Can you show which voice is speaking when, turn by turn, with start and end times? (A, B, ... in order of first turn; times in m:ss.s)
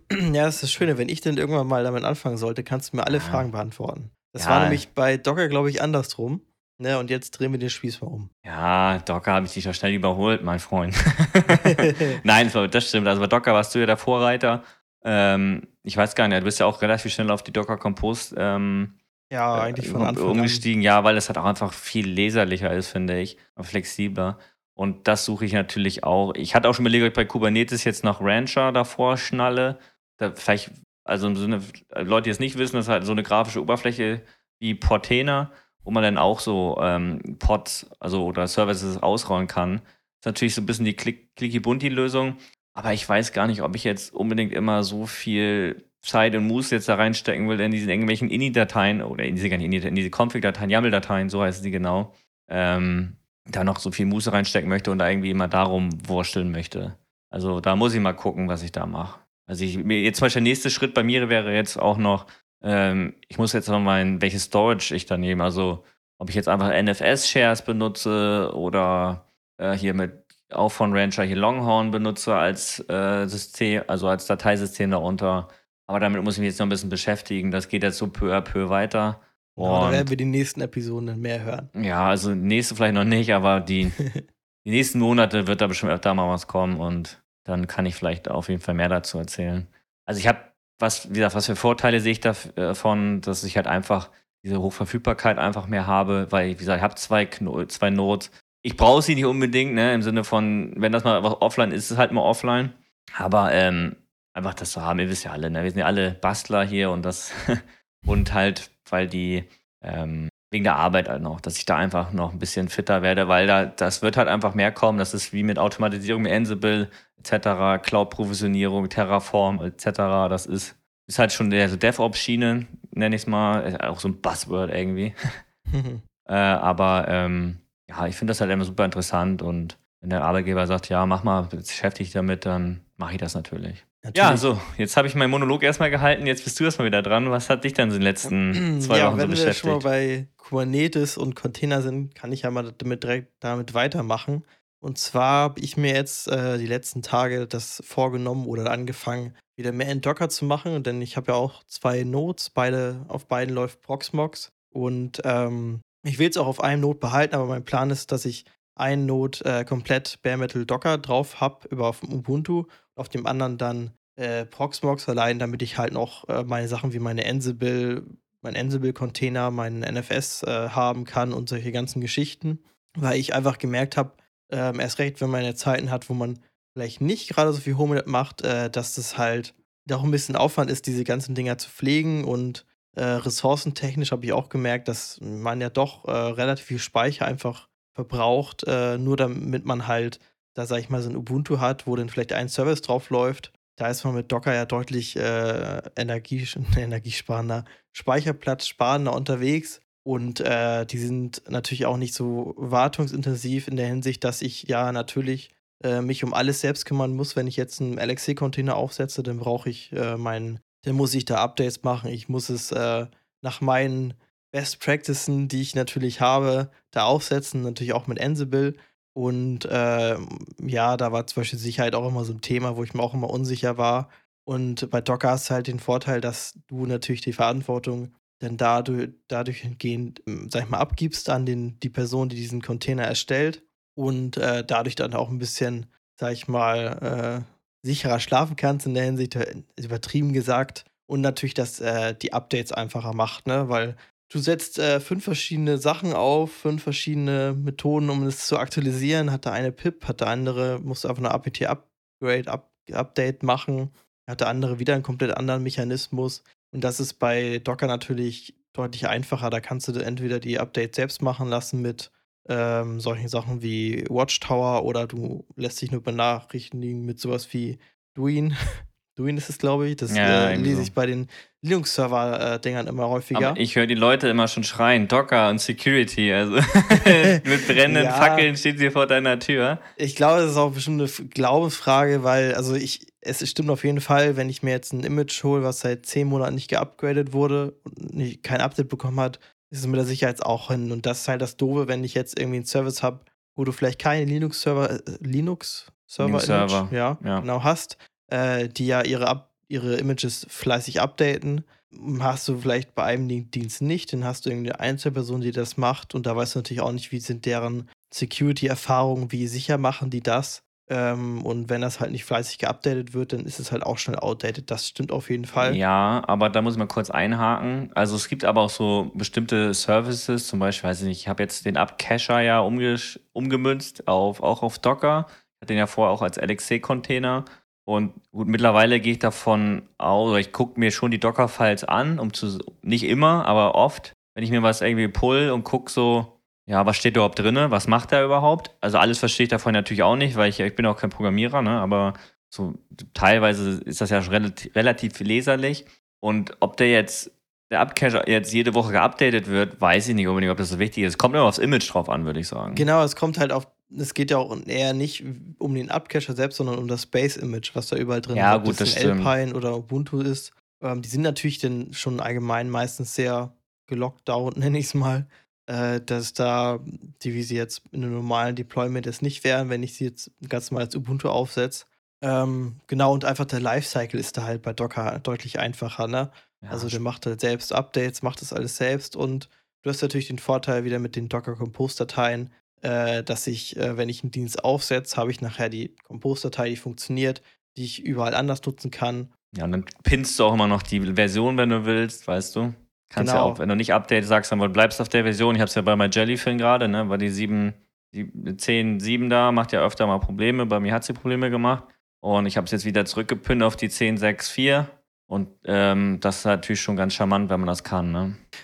0:00.1-0:08.3 A
0:03.1-0:03.5 B
0:04.4-0:04.8 B
0:08.4-0:19.0 B
0:11.6-0:12.2 A
0:19.3-0:20.7 A
0:19.5-1:20.1 B
1:19.6-1:21.7 A
1:21.8-1:24.0 B
1:24.6-2:05.2 B
2:05.7-2:06.0 A
2:06.3-2:19.9 B
2:14.0-2:14.5 A
2:18.3-4:28.6 A
4:29.1-4:33.6 A
4:30.1-4:30.9 B
4:33.3-4:39.8 B
4:37.8-4:38.5 A
4:40.0-5:15.8 A
4:56.2-4:57.5 B
5:15.6-5:52.9 B
5:52.7-6:29.3 A
5:58.3-5:59.3 B
6:16.6-6:17.0 B
6:29.5-6:48.4 B
6:33.2-6:33.6 A